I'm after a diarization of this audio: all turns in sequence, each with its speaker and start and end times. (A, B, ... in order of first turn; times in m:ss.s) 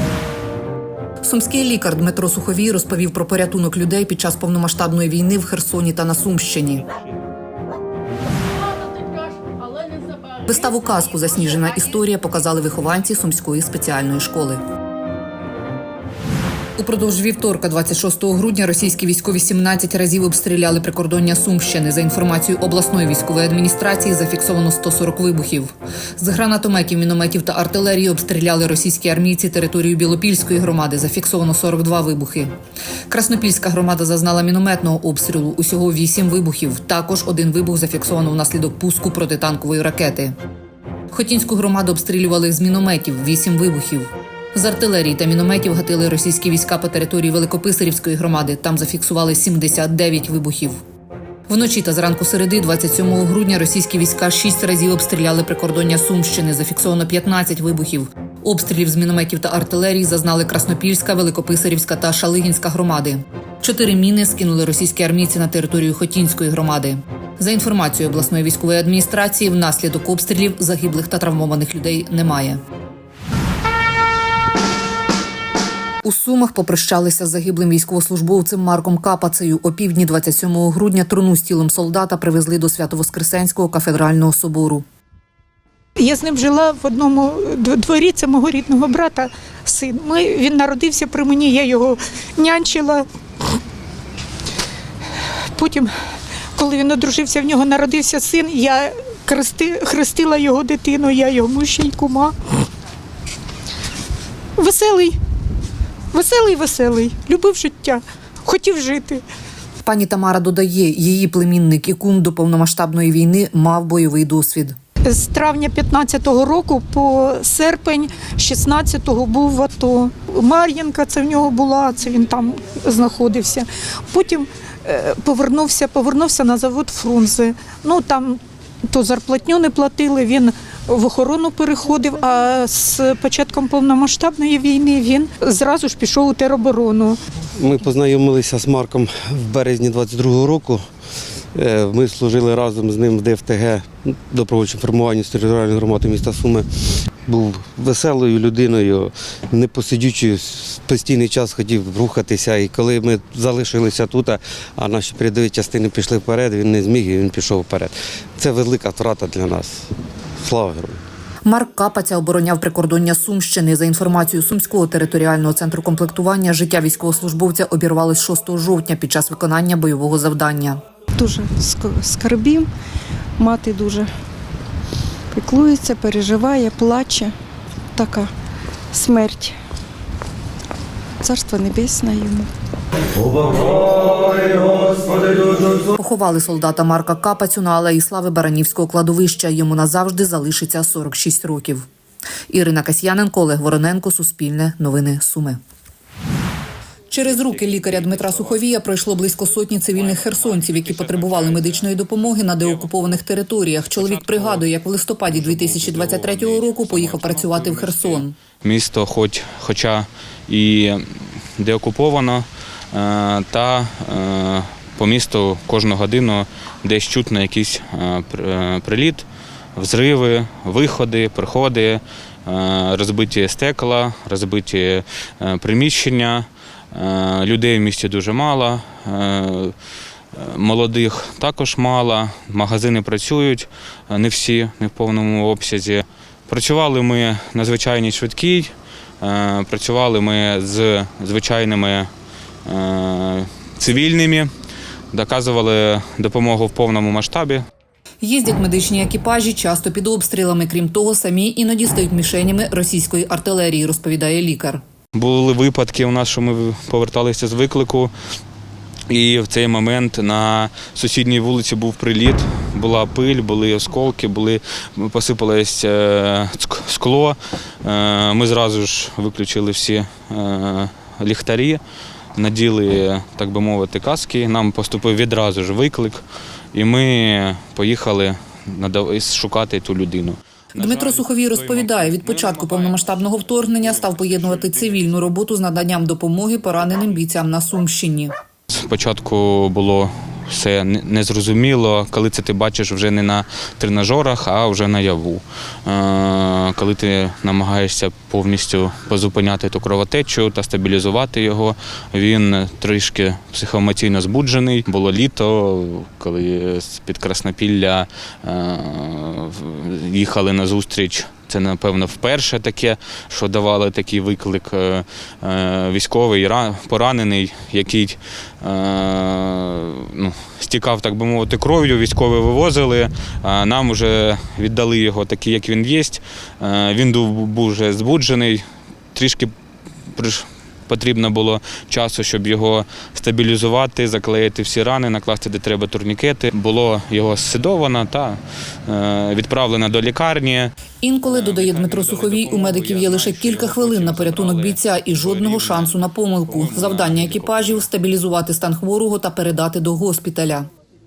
0:01.2-0:06.8 A
0:10.5-0:14.6 A
0:16.8-0:32.5 A
0:33.1-0:40.4 A
0:41.1-0:50.8 A
0:51.5-1:12.6 A
1:16.0-1:24.8 A
1:26.0-1:33.0 B
1:35.5-1:35.9 B
1:36.6-1:42.3 B
1:44.6-1:45.2 B
1:46.1-1:49.2 B
1:49.8-1:54.8 A
1:55.0-2:17.2 B
2:17.6-2:20.8 C
2:21.5-2:26.7 C
2:27.2-2:41.0 C
2:41.4-2:50.8 A
2:51.2-2:52.7 D
2:53.4-2:54.1 D
2:55.3-2:57.3 D
2:57.9-2:58.3 D
2:58.9-2:59.6 D
3:01.2-3:02.5 D
3:06.0-3:11.9 A
3:12.5-3:15.6 A
3:17.1-3:28.3 A
3:20.8-3:21.8 E
3:24.0-3:24.6 E
3:25.3-3:31.0 E
3:31.6-3:39.2 E
3:39.8-3:49.7 E
3:50.3-4:02.1 E
4:02.6-4:04.5 E
4:05.1-4:07.6 E
4:08.2-4:14.8 A
4:15.1-4:18.1 E
4:19.1-4:31.8 E
4:32.4-4:36.2 E
4:36.7-4:43.1 E
4:40.8-4:48.3 A
4:48.7-5:28.6 E
5:29.1-5:29.5 E
5:30.1-5:47.9 E
5:41.0-5:50.7 A